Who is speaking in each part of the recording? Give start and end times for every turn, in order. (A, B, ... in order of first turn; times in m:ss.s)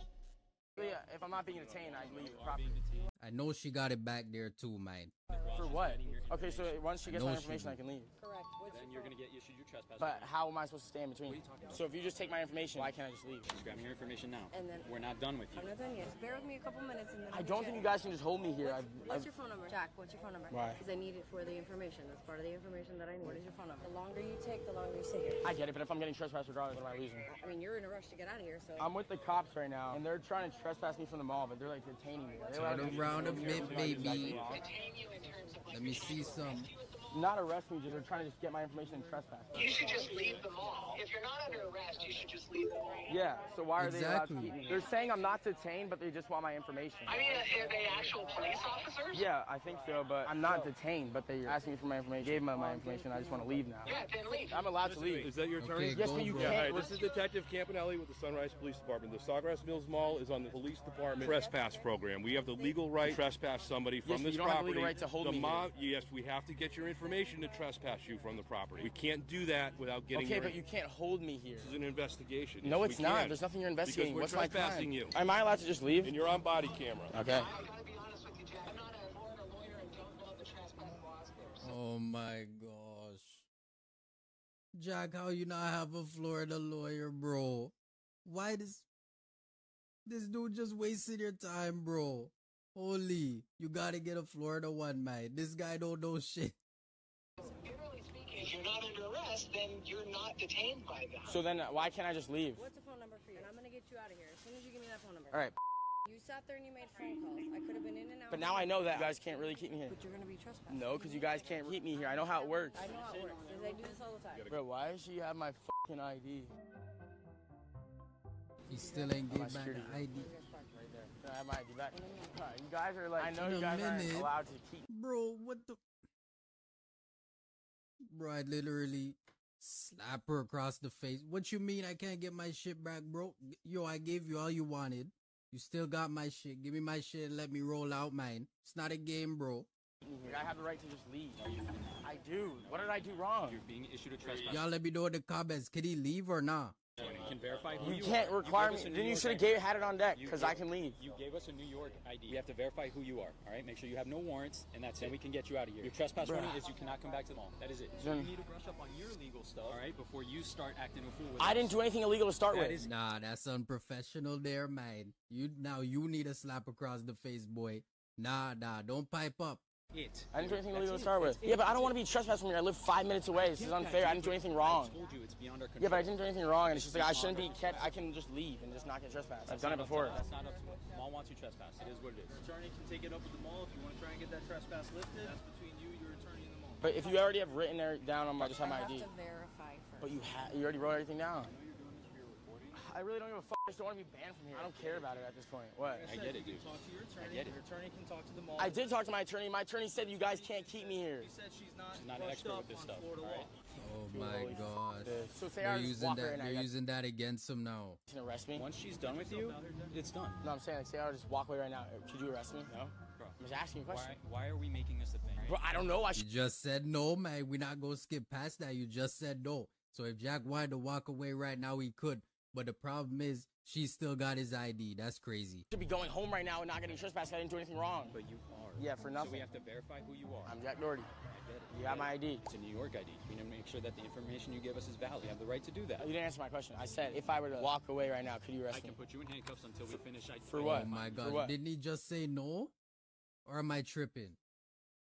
0:00.8-0:02.8 A
0:00.8-0:03.1 B
0:03.2-0:05.1 C
0:05.3-0:07.1 B
0:05.5-0:08.1 A
0:07.1-0:07.8 C
0:08.2-0:09.1 D
0:08.7-0:10.3 B
0:10.0-0:13.5 A
0:11.3-0:11.8 B
0:13.4-0:16.4 B
0:14.5-0:14.9 D
0:15.5-0:18.0 D
0:17.3-0:19.3 A
0:18.6-0:25.5 D
0:20.5-0:20.8 A
0:25.4-0:27.3 A
0:27.3-0:28.9 D
0:28.8-0:34.7 A
0:32.5-0:34.4 D
0:32.6-0:34.4 C
0:34.5-0:37.2 E
0:35.7-0:36.7 C
0:37.1-0:39.9 A
0:39.5-0:43.2 E
0:39.8-0:40.9 D
0:41.6-0:42.3 D
0:43.1-0:47.5 A
0:43.8-0:44.6 C
0:47.1-0:49.3 E
0:49.1-0:55.3 A
0:52.6-0:53.9 D
0:53.8-0:54.7 E
0:54.8-1:10.6 F
0:55.6-0:56.7 C
0:55.9-0:56.9 A
0:56.8-0:57.3 D
1:00.6-1:03.3 D
1:04.0-1:05.7 A
1:07.1-1:07.5 D
1:10.1-1:11.8 A
1:11.6-1:15.2 F
1:12.6-1:16.2 A
1:16.0-1:17.2 F
1:17.1-1:17.5 A
1:17.2-1:21.7 E
1:21.6-1:23.5 C
1:24.8-1:27.7 C
1:28.2-1:28.9 C
1:30.1-1:36.6 C
1:37.4-1:41.4 E
1:41.2-1:42.6 A
1:42.6-1:45.5 D
1:46.1-1:54.5 D
1:48.3-1:50.0 A
1:50.7-1:52.9 A
1:52.8-1:53.9 B
1:54.5-1:56.5 A
1:58.7-2:00.3 C
1:58.7-1:59.2 D
1:59.3-2:00.1 A
2:00.1-2:00.7 D
2:00.7-2:04.9 A
2:01.9-2:02.4 D
2:03.2-2:04.3 C
2:04.9-2:05.8 C
2:08.1-2:19.7 C
2:20.0-2:21.4 A
2:21.4-2:24.7 B
2:22.0-2:23.6 A
2:24.5-2:26.8 C
2:27.0-2:41.8 B
2:27.8-2:31.0 A
2:36.2-2:36.6 A
2:38.0-2:38.3 A
2:41.4-2:42.8 A
2:42.5-2:42.9 B
2:42.8-2:49.6 C
2:49.9-2:51.9 B
2:50.3-2:55.0 A
2:53.3-2:58.0 B
2:55.8-3:00.2 A
2:59.5-3:02.4 B
3:02.4-3:06.8 G
3:06.8-3:09.1 A
3:08.4-3:08.9 B
3:08.6-3:10.2 D
3:10.0-3:11.5 A
3:11.4-3:12.8 B
3:12.7-3:16.1 A
3:14.5-3:15.2 B
3:16.0-3:17.6 B
3:16.1-3:18.7 G
3:18.6-3:21.3 A
3:21.2-3:23.5 G
3:21.9-3:23.5 B
3:23.8-3:26.7 A
3:23.8-3:28.0 C
3:28.1-3:28.7 A
3:28.6-3:30.5 B
3:29.0-3:29.9 G
3:30.4-3:34.2 A
3:33.2-3:35.8 B
3:35.4-3:36.2 A
3:36.2-3:45.6 C
3:45.7-3:48.2 A
3:48.1-3:50.6 B
3:48.8-3:49.5 A
3:50.4-3:51.1 A
3:51.2-3:56.1 B
3:51.7-3:52.4 A
3:56.0-3:59.0 A
3:57.1-3:57.8 B
3:58.7-4:01.4 B
4:00.4-4:01.5 A
4:00.6-4:02.7 C
4:03.5-4:04.4 C